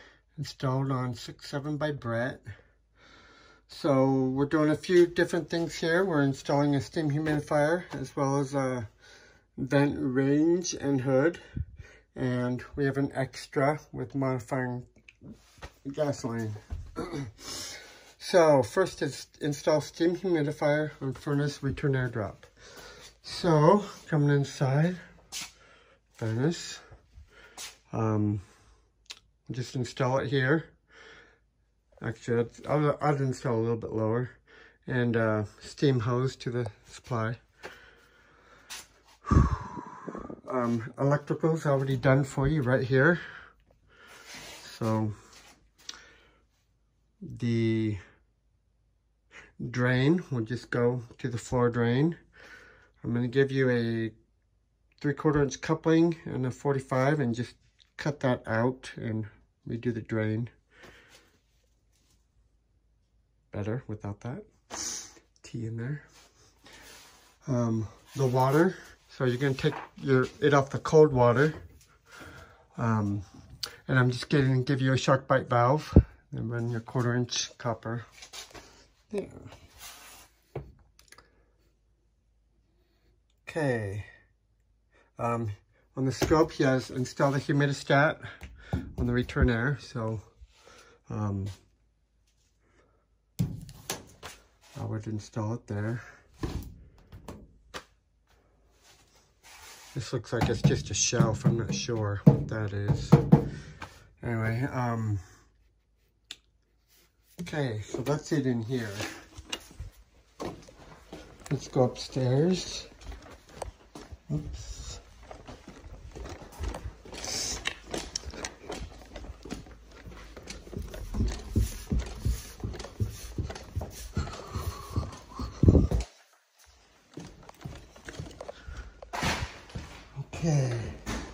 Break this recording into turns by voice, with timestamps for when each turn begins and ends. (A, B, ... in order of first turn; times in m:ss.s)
0:00.4-0:02.4 A
0:03.7-0:08.9 A
0:09.6-0:11.4 A
0:12.1-0:14.8 A
0:15.8-0:22.5 A
0:23.2-0:25.0 A
0:26.2-0:26.8 A
0:27.9-0:28.4 A
0:29.5-0:30.7 A
0:32.0-0:34.3 A
0:34.9-0:37.4 A
0:39.2-0:43.2 A
0:44.6-0:45.1 A
0:47.2-0:48.0 A
0:49.6-0:52.2 A
0:53.0-0:54.1 A
0:55.0-1:00.5 A
1:03.5-1:06.0 A
1:07.4-1:11.6 A
1:12.8-1:13.2 A
1:13.9-1:18.1 A
1:19.1-1:19.5 A
1:23.4-1:24.1 A
1:25.2-1:28.2 A
1:29.0-1:30.2 A
1:31.1-1:31.5 A
1:34.8-1:36.0 A
1:39.9-1:43.2 A
1:44.2-1:45.2 A
1:47.4-1:49.0 A
1:51.5-1:52.9 A
1:54.3-1:54.9 A
2:10.2-2:11.0 A